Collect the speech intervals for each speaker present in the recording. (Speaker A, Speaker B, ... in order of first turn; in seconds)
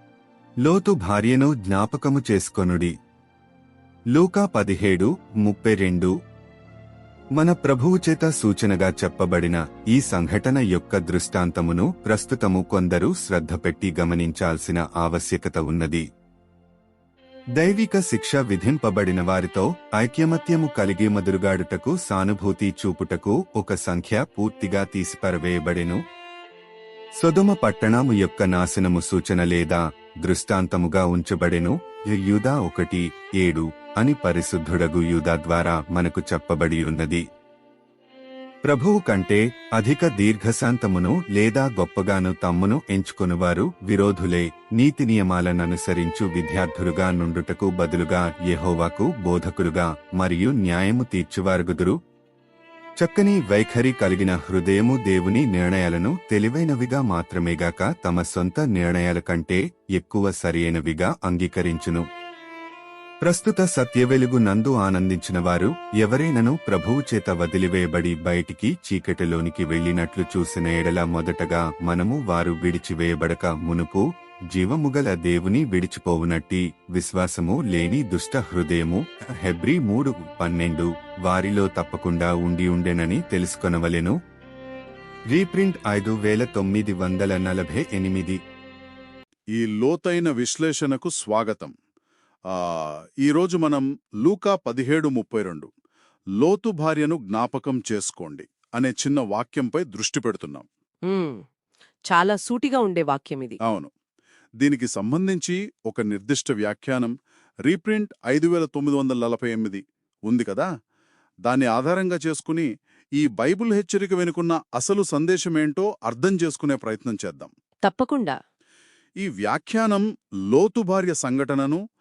Speaker A: 0.6-2.9, 4.1-6.1, 7.4-16.1, 17.6-26.0, 27.2-37.2, 38.6-52.0, 53.0-62.0, 63.2-84.2, 85.3-88.4
Speaker B: 89.5-91.7, 92.5-95.7, 96.4-100.7, 103.7-103.9, 104.6-107.1, 107.7-110.7, 111.5-117.5, 119.2-121.8
Speaker C: 101.1-101.4, 102.1-103.6, 117.8-118.4